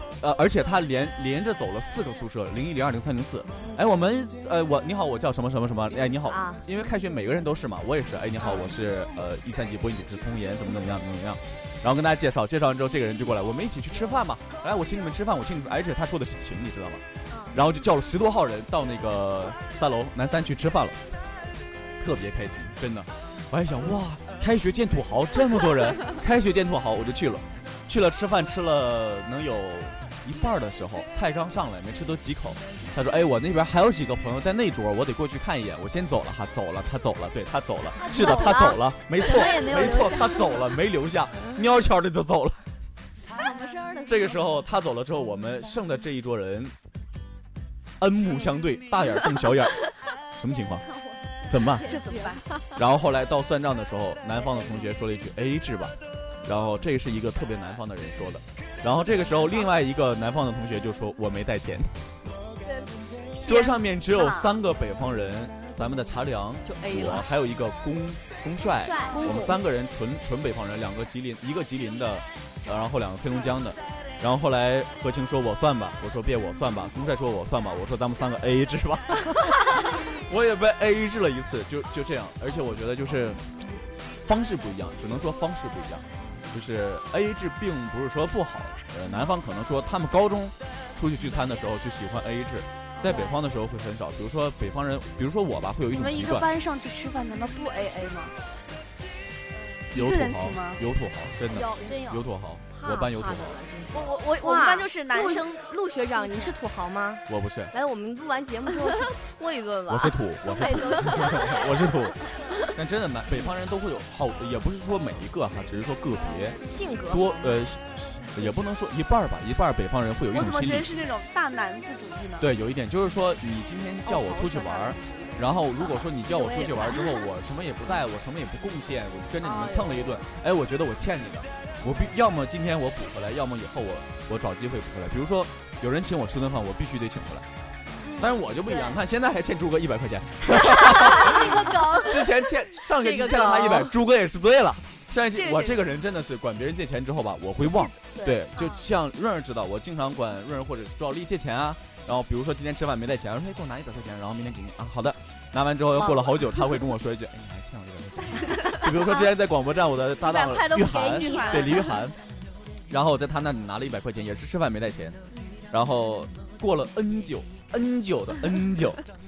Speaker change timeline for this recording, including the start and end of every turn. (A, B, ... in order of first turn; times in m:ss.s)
0:00.2-0:21.0 A
0:06.3-0:06.6 B
0:17.3-0:17.6 C
0:22.0-0:42.6 A
0:38.0-0:40.6 C
0:43.3-0:44.6 C
0:44.1-0:46.7 A
0:48.0-0:50.8 A
0:50.8-0:52.6 C
0:51.5-0:52.0 A
0:51.8-0:52.5 D
0:52.8-1:01.9 A
0:54.6-0:54.9 C
1:02.6-1:03.0 C
1:03.4-1:04.5 D
1:03.4-1:23.4 A
1:06.7-1:07.3 B
1:08.8-1:09.6 C
1:09.2-1:09.5 B
1:24.2-1:36.5 A
1:33.0-1:33.3 D
1:33.1-1:33.3 C
1:35.9-1:38.4 D
1:39.5-1:39.8 C
1:39.9-1:40.8 D
1:39.9-1:43.6 A
1:41.5-1:42.3 C
1:42.7-1:50.2 B
1:43.9-1:45.6 D
1:47.3-1:47.7 A
1:49.9-1:52.2 A
1:50.5-1:51.7 C
1:52.7-1:56.6 A
1:56.6-1:57.5 B
1:57.1-2:00.9 A
2:00.3-2:02.5 D
2:02.4-2:17.5 A
2:04.1-2:05.4 B
2:06.2-2:07.1 C
2:09.4-2:10.2 D
2:18.0-2:18.4 D
2:18.2-2:42.2 A
2:20.7-2:22.2 D
2:23.0-2:24.0 B
2:25.3-2:25.8 D
2:28.6-2:28.8 C
2:36.0-2:36.8 B
2:40.2-2:42.0 C
2:41.0-2:42.0 D
2:42.9-2:45.2 A
2:45.7-2:49.0 A